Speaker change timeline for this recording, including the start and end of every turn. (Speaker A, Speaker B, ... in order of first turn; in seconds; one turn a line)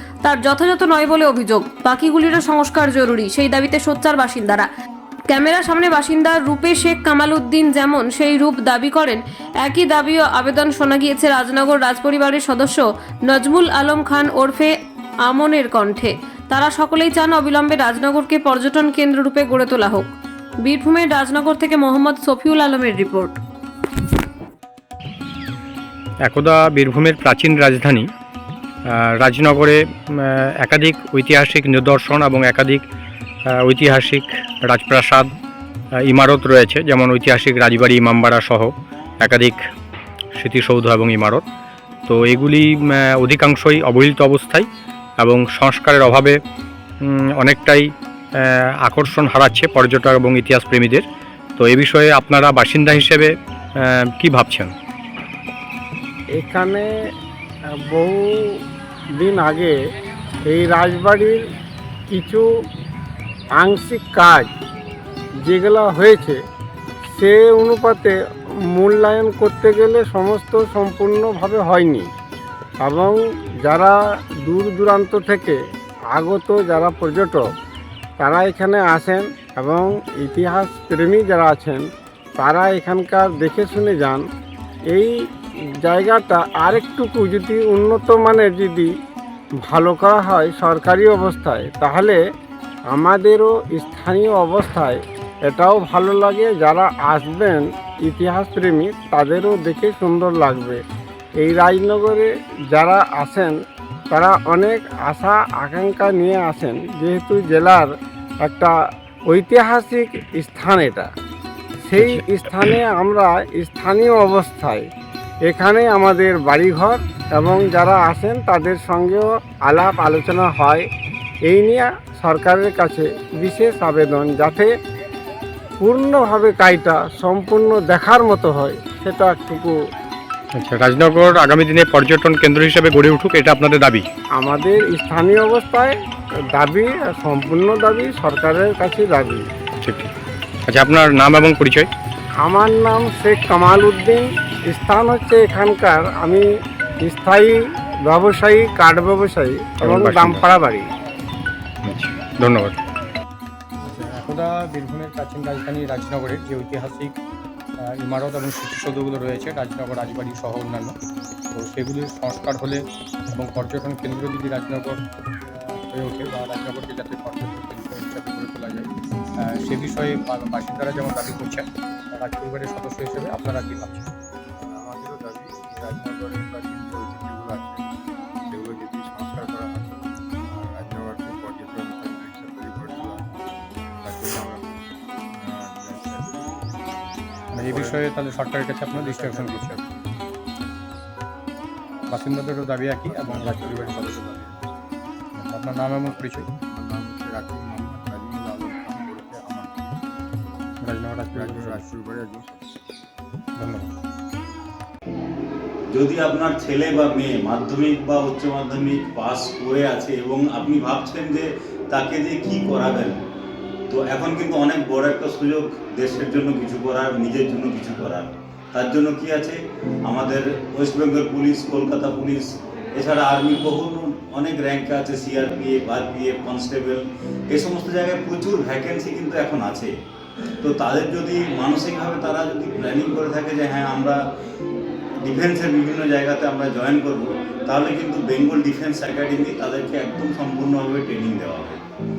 Speaker A: 0.2-4.7
Speaker A: 5.3-14.7
Speaker A: 15.3-20.1
Speaker A: 20.6-23.4
Speaker B: 26.2-28.1
Speaker B: 28.9-32.9
Speaker B: 33.5-35.3
Speaker B: 36.0-39.6
Speaker B: 40.3-41.4
Speaker B: 42.1-44.7
Speaker B: 45.2-46.4
Speaker B: 47.0-51.0
Speaker B: 51.6-53.4
Speaker B: 54.2-54.7
Speaker C: 56.4-56.9
Speaker C: 57.9-58.6
Speaker C: 59.2-59.8
Speaker C: 60.5-61.4
Speaker C: 62.1-62.5
Speaker C: 63.6-64.5
Speaker C: 65.5-66.4
Speaker C: 67.2-68.2
Speaker C: 68.7-72.1
Speaker C: 72.8-75.6
Speaker C: 76.1-77.5
Speaker C: 78.2-81.8
Speaker C: 82.4-84.2
Speaker C: 85.8-88.9
Speaker C: 89.7-92.2
Speaker C: 92.9-100.8
Speaker C: 101.4-103.5
Speaker C: 104.1-107.9
Speaker C: 108.4-108.7
Speaker C: 109.3-111.1
Speaker C: 111.9-114.8
Speaker C: 115.5-120.9
Speaker C: 121.5-124.7
Speaker C: 125.8-129.8
Speaker B: 130.6-134.1
Speaker C: 134.4-136.0
Speaker C: 136.5-139.4
Speaker B: 139.8-140.1
Speaker B: 140.7-141.9
Speaker C: 142.4-146.5
Speaker C: 147.0-150.9
Speaker B: 149.8-150.4
Speaker B: 151.8-152.8
Speaker B: 153.8-157.2
Speaker B: 157.8-160.9
Speaker B: 161.5-168.9
Speaker B: 169.4-174.1
Speaker D: 174.6-177.9
Speaker D: 178.5-183.5
Speaker D: 184.0-184.7
Speaker D: 185.4-188.2
Speaker B: 187.5-189.8
Speaker D: 188.9-190.1
Speaker B: 192.1-194.2
Speaker D: 193.0-194.7
Speaker B: 195.4-196.5
Speaker D: 196.0-200.1
Speaker B: 200.8-201.8
Speaker D: 201.3-202.8
Speaker B: 203.6-203.9
Speaker E: 205.9-213.2
Speaker E: 213.9-222.4
Speaker E: 223.0-229.9
Speaker E: 230.6-234.2
Speaker E: 235.2-241.8